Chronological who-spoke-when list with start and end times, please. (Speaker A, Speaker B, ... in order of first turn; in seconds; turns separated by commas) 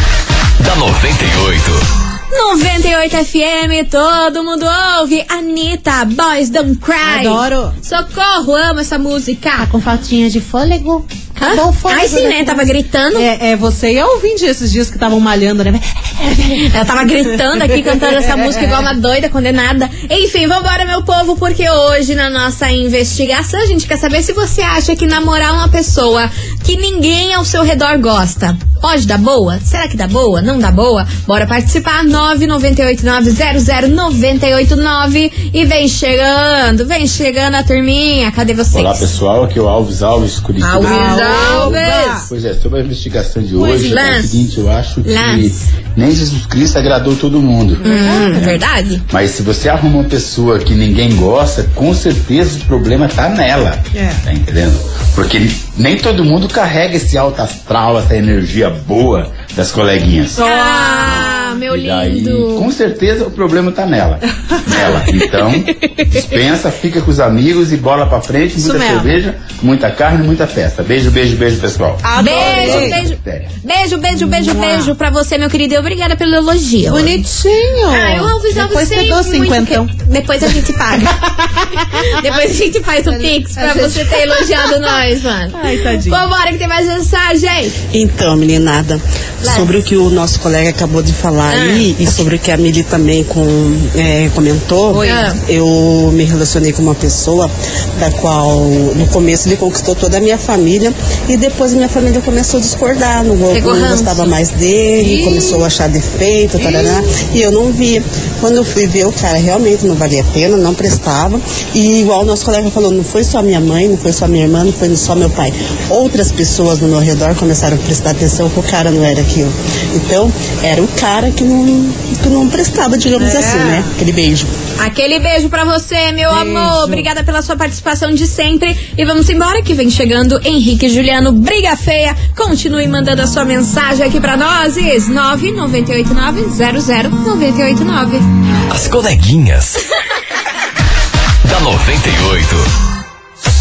Speaker A: 0.6-1.8, Speaker B: 2.3-9.7, Speaker C: 7.0-7.7, Speaker C: 9.6-16.7, Speaker B: 11.4-13.3, Speaker B: 16.6-39.1, Speaker C: 17.5-18.9, Speaker D: 38.7-60.4, Speaker B: 40.6-42.2, Speaker C: 40.8-42.3, Speaker C: 43.6-44.1, Speaker B: 43.8-44.4, Speaker B: 45.0-45.6, Speaker C: 47.8-48.6, Speaker B: 47.8-49.0, Speaker C: 53.9-54.2, Speaker C: 60.4-61.3, Speaker B: 60.4-62.7, Speaker D: 61.7-73.5, Speaker C: 68.6-69.2, Speaker C: 72.0-73.0, Speaker B: 72.2-77.2, Speaker C: 74.2-74.9, Speaker C: 76.9-79.9, Speaker B: 77.9-81.1, Speaker C: 81.0-82.5, Speaker B: 81.8-87.8, Speaker C: 83.0-85.0, Speaker C: 85.5-86.2, Speaker E: 87.9-124.5, Speaker B: 89.4-89.7, Speaker B: 91.5-91.9, Speaker C: 94.9-95.3, Speaker B: 95.0-95.4, Speaker B: 103.5-104.3, Speaker C: 105.0-105.5, Speaker C: 106.6-107.0, Speaker C: 123.1-123.9, Speaker B: 124.8-138.2, Speaker C: 126.3-127.0, Speaker A: 138.7-139.8, Speaker A: 141.4-142.7